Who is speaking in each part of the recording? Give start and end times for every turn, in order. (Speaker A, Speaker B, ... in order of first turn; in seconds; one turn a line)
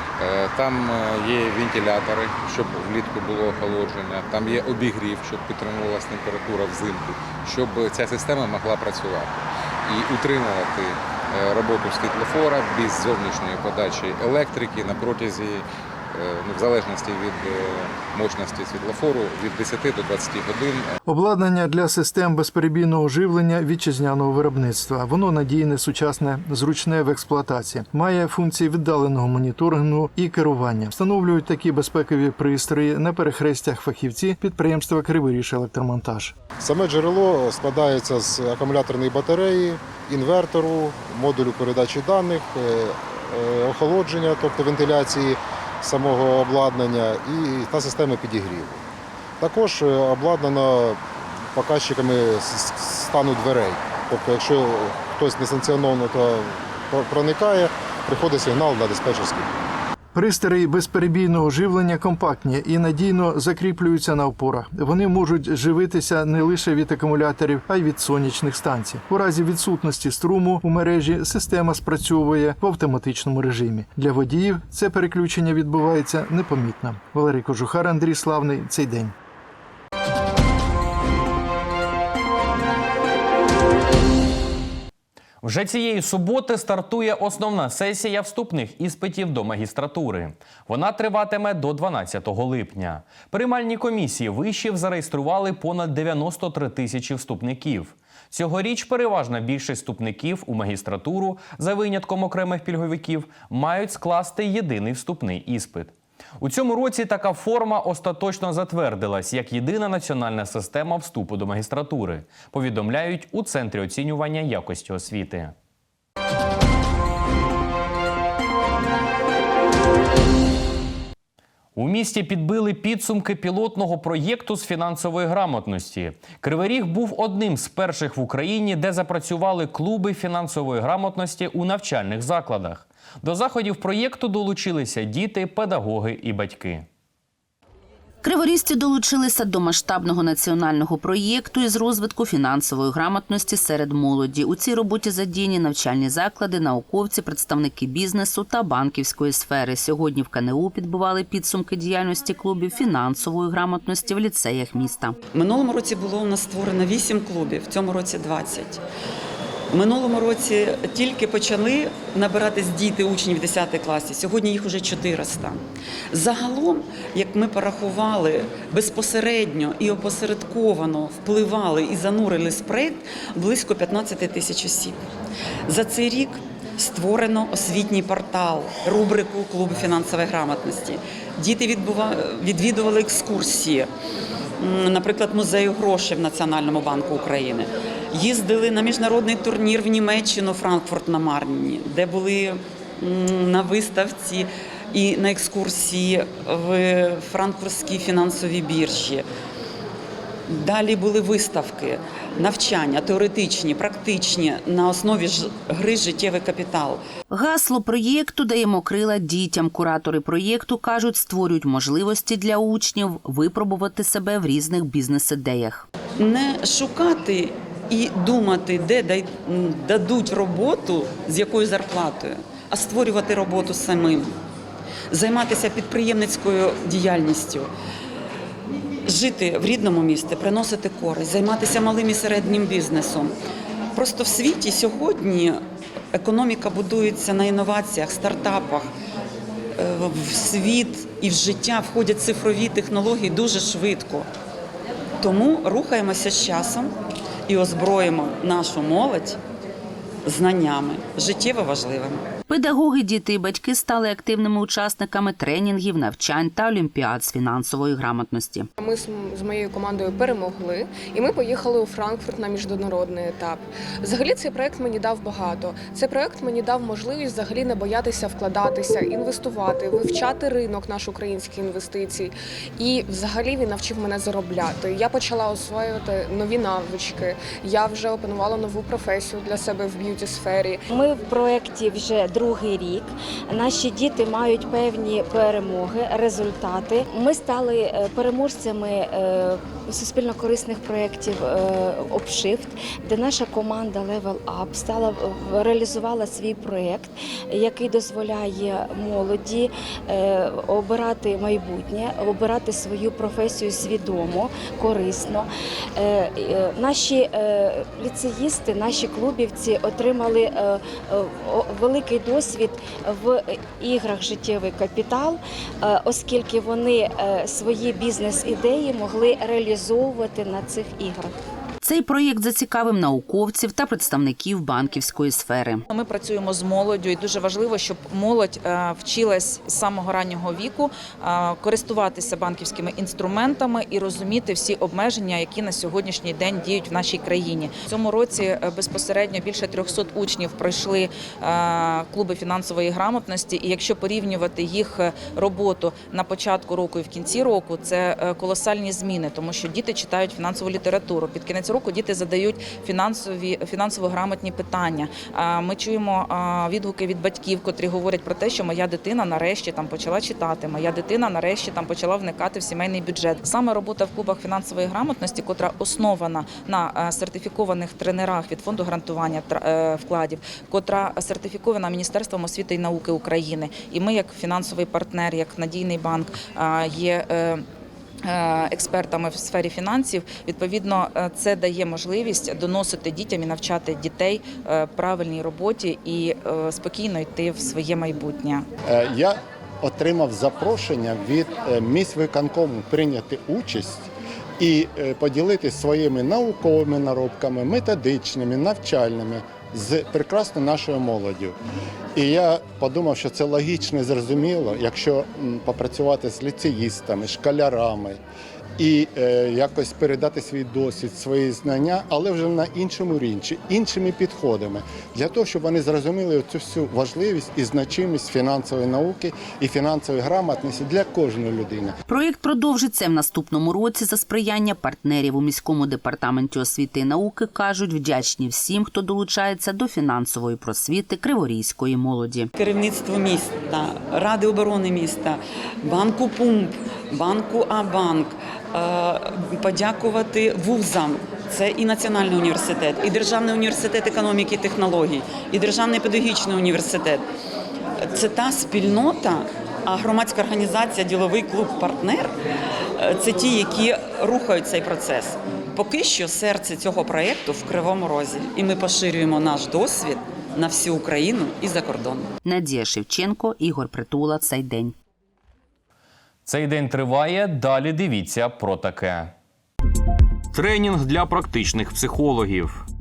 Speaker A: 0.2-20.9
Speaker B: 21.0-36.3
Speaker C: 36.6-48.8
Speaker C: 49.4-51.0
Speaker C: 51.5-59.4
Speaker B: 60.1-79.1
Speaker D: 85.4-88.5
Speaker E: 86.1-89.2
Speaker D: 89.1-96.4
Speaker E: 90.0-90.3
Speaker E: 91.0-93.0
Speaker E: 93.8-97.9
Speaker D: 97.1-104.3
Speaker E: 98.6-101.8
Speaker E: 102.3-105.9
Speaker D: 105.1-105.5
Speaker D: 106.4-113.0
Speaker E: 106.9-108.2
Speaker E: 109.5-110.0
Speaker E: 112.9-114.7
Speaker D: 113.7-115.4
Speaker D: 121.8-123.6
Speaker E: 122.3-132.8
Speaker D: 126.2-126.6
Speaker D: 132.1-135.7
Speaker E: 133.6-136.8
Speaker F: 138.2-155.2
Speaker G: 155.3-158.8
Speaker G: 159.7-165.6
Speaker G: 166.1-175.0
Speaker G: 175.7-183.9
Speaker G: 184.6-199.2
Speaker G: 200.5-207.0
Speaker F: 207.3-215.8
Speaker G: 216.2-224.3
Speaker G: 225.1-227.7
Speaker G: 229.1-233.3
Speaker G: 233.9-235.6
Speaker G: 236.1-238.9
Speaker G: 239.8-244.3
Speaker G: 245.2-246.9
Speaker G: 247.5-249.4
Speaker G: 250.2-252.3
Speaker F: 252.5-258.7
Speaker H: 258.8-280.8
Speaker I: 280.9-321.3
Speaker F: 321.8-325.8
Speaker D: 325.9-377.6
Speaker D: 378.3-388.6
Speaker J: 388.9-401.6
Speaker J: 402.1-408.2
Speaker J: 408.8-421.9
Speaker F: 422.1-432.5
Speaker G: 432.6-447.2
Speaker G: 448.1-452.3
Speaker G: 453.0-462.3
Speaker F: 462.4-464.9
Speaker D: 466.4-469.3
Speaker D: 470.5-472.8